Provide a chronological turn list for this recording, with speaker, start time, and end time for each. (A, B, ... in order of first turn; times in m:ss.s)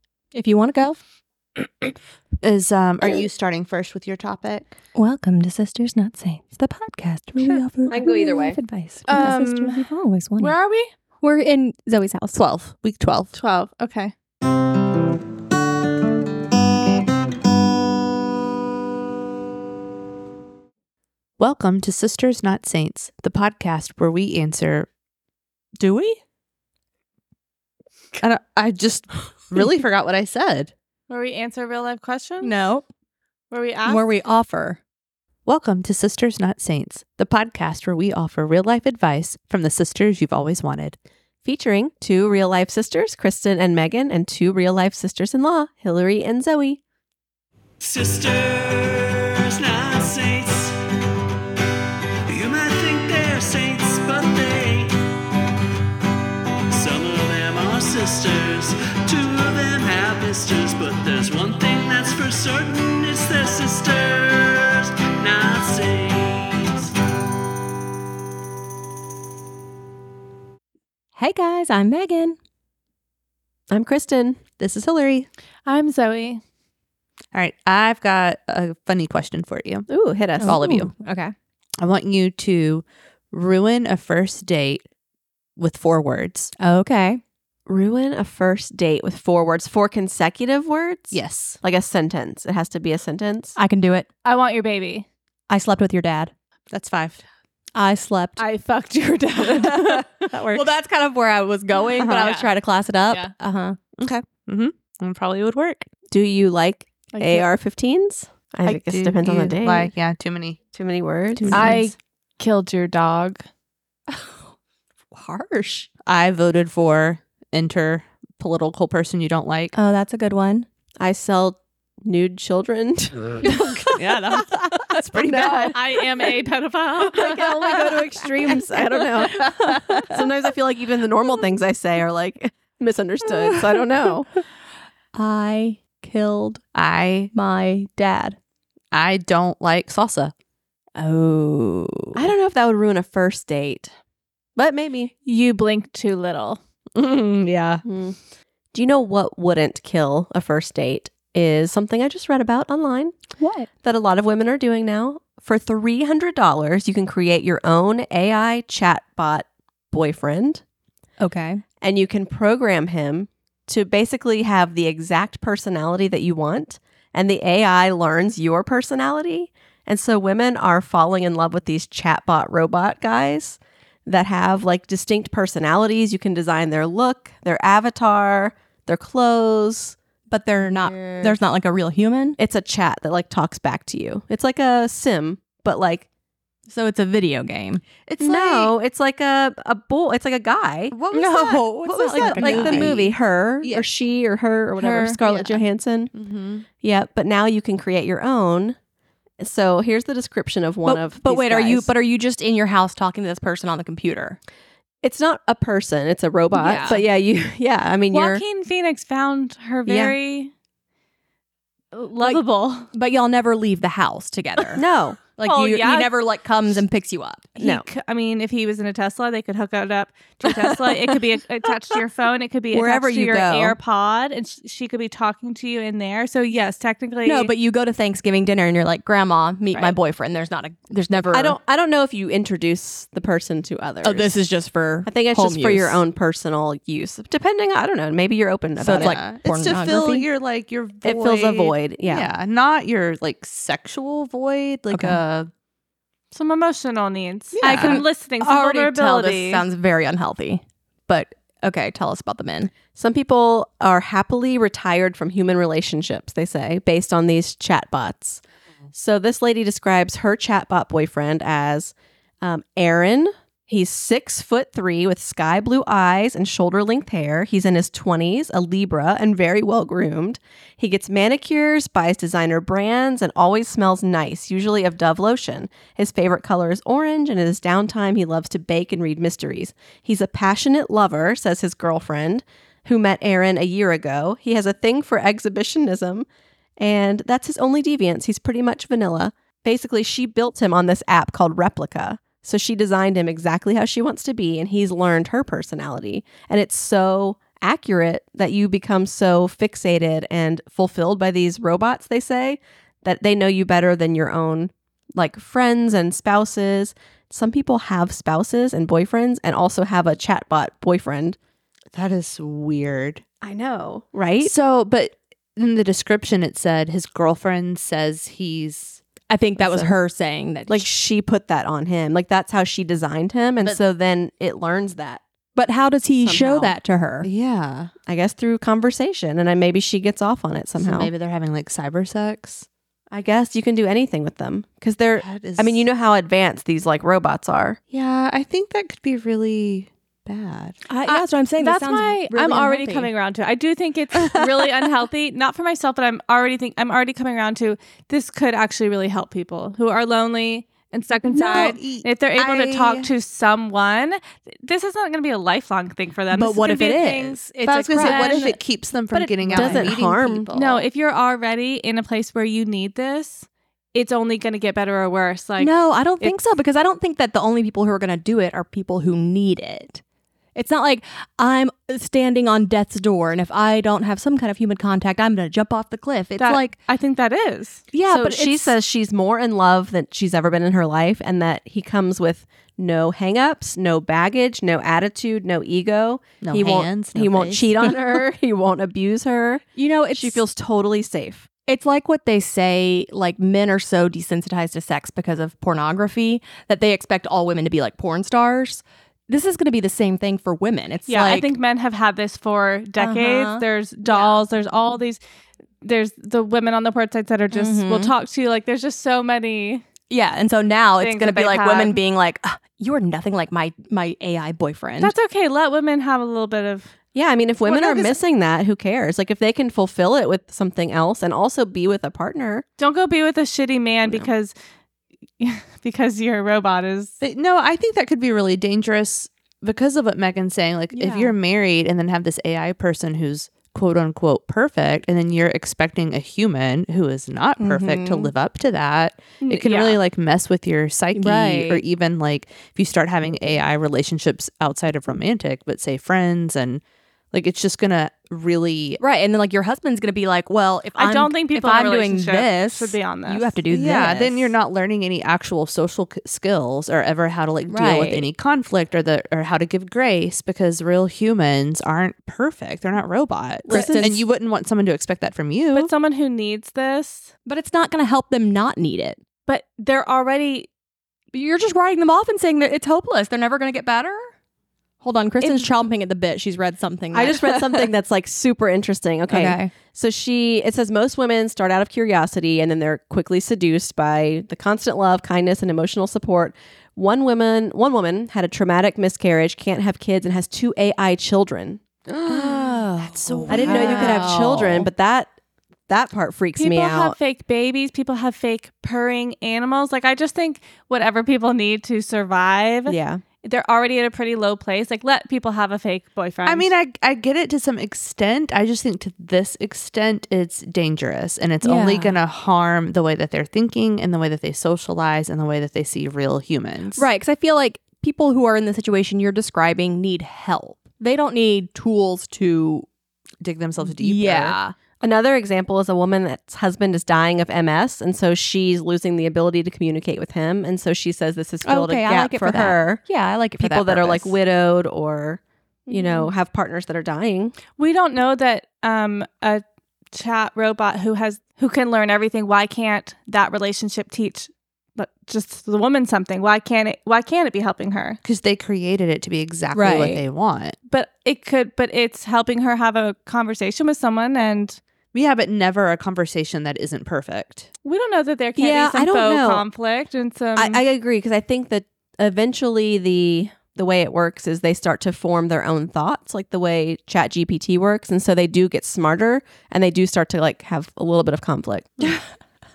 0:00.3-0:01.0 A
0:02.4-0:04.7 B
0:04.9-0:10.5 A
0:07.9-0:08.6 C
0:09.1-0:09.9 D
0:10.4-0:10.9 D
0:11.2-0:12.4 A
0:12.3-0:13.3 B
0:13.3-0:14.1 D
0:21.4-0:24.9 B
0:25.8-0:26.2 A
0:28.2-0:30.7 B
0:31.1-0:32.6 D
0:32.4-0:32.8 A
0:33.5-0:34.0 D
0:33.9-0:34.8 A
0:35.4-0:41.0 B
0:41.4-0:46.8 C
0:47.8-0:50.7 E
0:52.3-0:55.0 E
0:56.7-1:06.9 E
1:11.2-1:12.4 A
1:13.7-1:14.4 C
1:14.6-1:15.3 B
1:15.6-1:16.4 D
1:17.3-1:19.9 B
1:19.9-1:20.6 C
1:20.4-1:21.3 A
1:20.4-1:20.9 B
1:21.8-1:24.8 B
1:25.6-1:26.5 B
1:26.6-1:27.2 A
1:27.6-1:33.6 C
1:31.1-1:31.6 B
1:33.6-1:34.1 A
1:34.2-1:35.0 D
1:35.5-1:36.3 A
1:36.7-1:37.2 B
1:37.7-1:38.4 A
1:38.4-1:40.6 D
1:39.9-1:43.8 A
1:42.0-1:42.3 B
1:42.1-1:42.5 D
1:44.0-1:45.8 B
1:46.1-1:49.9 C
1:47.1-1:47.4 D
1:48.6-1:50.6 B
1:50.7-1:51.7 C
1:51.4-1:51.7 B
1:51.5-1:51.9 A
1:51.5-1:53.4 D
1:54.1-1:54.4 A
1:55.1-1:55.9 A
1:56.0-1:59.7 B
1:59.7-2:00.7 A
2:01.0-2:03.9 C
2:03.5-2:05.8 B
2:05.2-2:05.8 C
2:05.6-2:07.7 D
2:07.0-2:14.3 C
2:09.3-2:10.0 B
2:15.1-2:16.6 A
2:16.7-2:17.3 B
2:17.3-2:18.4 A
2:18.9-2:20.3 B
2:21.0-2:22.2 A
2:22.1-2:23.9 C
2:24.6-2:25.1 C
2:25.2-2:26.6 D
2:26.9-2:27.8 B
2:27.8-2:28.2 C
2:28.7-2:33.1 C
2:33.4-2:33.7 A
2:33.8-2:40.6 C
2:41.2-2:41.6 A
2:41.8-3:00.0 C
3:00.3-3:02.4 A
3:02.4-3:06.0 C
3:06.7-3:07.8 A
3:08.1-3:08.7 B
3:08.2-3:11.0 C
3:10.9-3:13.0 B
3:11.1-3:13.1 A
3:12.2-3:16.1 C
3:14.8-3:15.2 A
3:15.2-3:15.6 B
3:16.1-3:16.6 B
3:16.8-3:18.8 C
3:19.4-3:21.9 C
3:20.8-3:24.4 A
3:25.0-3:28.4 C
3:26.6-3:27.0 A
3:28.1-3:30.5 D
3:29.9-3:30.2 C
3:31.9-3:32.9 D
3:32.2-3:34.8 A
3:34.7-3:35.2 C
3:35.4-3:37.5 A
3:35.4-3:36.1 D
3:37.6-3:47.5 D
3:37.6-3:37.8 C
3:40.4-3:41.2 C
3:42.7-3:43.8 C
3:47.2-3:51.6 A
3:51.3-3:54.4 C
3:54.0-3:56.0 A
3:55.0-3:59.2 C
3:58.8-4:00.3 A
3:58.9-4:05.5 B
4:01.0-4:02.3 C
4:04.9-4:05.2 A
4:06.3-4:09.6 D
4:07.5-4:08.0 B
4:07.6-4:12.7 A
4:12.9-4:18.4 C
4:18.9-4:46.3 C
4:46.8-5:11.4 C
5:11.9-5:13.2 B
5:13.4-5:14.5 C
5:14.4-5:19.0 B
5:19.3-5:20.9 A
5:20.7-5:25.2 C
5:25.6-5:27.3 A
5:26.2-5:26.7 C
5:27.2-5:27.9 B
5:28.0-5:31.1 C
5:30.8-5:32.6 B
5:33.1-5:37.8 C
5:35.2-5:35.8 B
5:37.9-5:40.8 B
5:40.9-5:43.1 A
5:41.1-5:58.5 D
5:44.2-5:44.6 B
5:51.3-5:53.1 B
5:56.3-5:58.5 A
5:57.6-6:00.8 B
5:59.1-6:00.5 C
5:59.4-5:59.9 A
6:00.5-6:06.3 D
6:05.6-6:10.0 A
6:10.5-6:16.8 A
6:16.4-6:17.8 D
6:17.9-6:18.7 A
6:18.1-6:31.5 C
6:26.4-6:27.9 B
6:29.8-6:30.4 A
6:31.7-6:41.5 A
6:41.1-6:45.2 D
6:43.0-6:44.4 A
6:45.8-6:49.8 D
6:47.5-6:48.1 A
6:50.1-6:55.1 A
6:51.0-6:52.0 D
6:55.0-6:56.9 D
6:57.1-7:02.6 C
6:57.6-6:58.2 B
7:02.8-7:04.5 D
7:05.4-7:07.1 D
7:07.2-7:29.0 B
7:10.9-7:11.3 A
7:17.6-7:18.3 A
7:19.4-7:20.0 D
7:21.2-7:21.8 A
7:29.0-7:34.5 A
7:31.0-7:33.6 D
7:33.7-7:45.9 B
7:37.7-7:38.3 A
7:43.6-7:44.2 C
7:43.7-7:44.2 A
7:45.7-7:47.3 D
7:47.4-7:49.2 A
7:49.5-7:50.7 D
7:51.3-7:54.3 A
7:55.0-7:57.8 A
7:55.4-7:55.7 D
7:57.1-8:11.8 C
7:59.3-7:59.7 A
8:12.0-8:14.9 B
8:12.3-8:14.9 A
8:13.5-8:15.3 C
8:15.9-8:17.1 C
8:16.6-8:26.7 D
8:22.9-8:23.2 C
8:26.4-8:37.1 B
8:31.6-8:32.1 A
8:37.0-8:42.9 A
8:43.4-8:44.6 B
8:43.8-8:44.7 A
8:45.0-8:53.0 C
8:51.6-8:54.4 A
8:53.6-8:57.6 C
8:55.9-8:56.3 A
8:57.8-9:08.2 D
9:08.2-9:10.8 B
9:09.7-9:10.2 A
9:10.9-9:14.8 D
9:15.1-9:17.7 B
9:17.8-9:20.8 D
9:18.6-9:19.6 C
9:20.6-9:32.1 C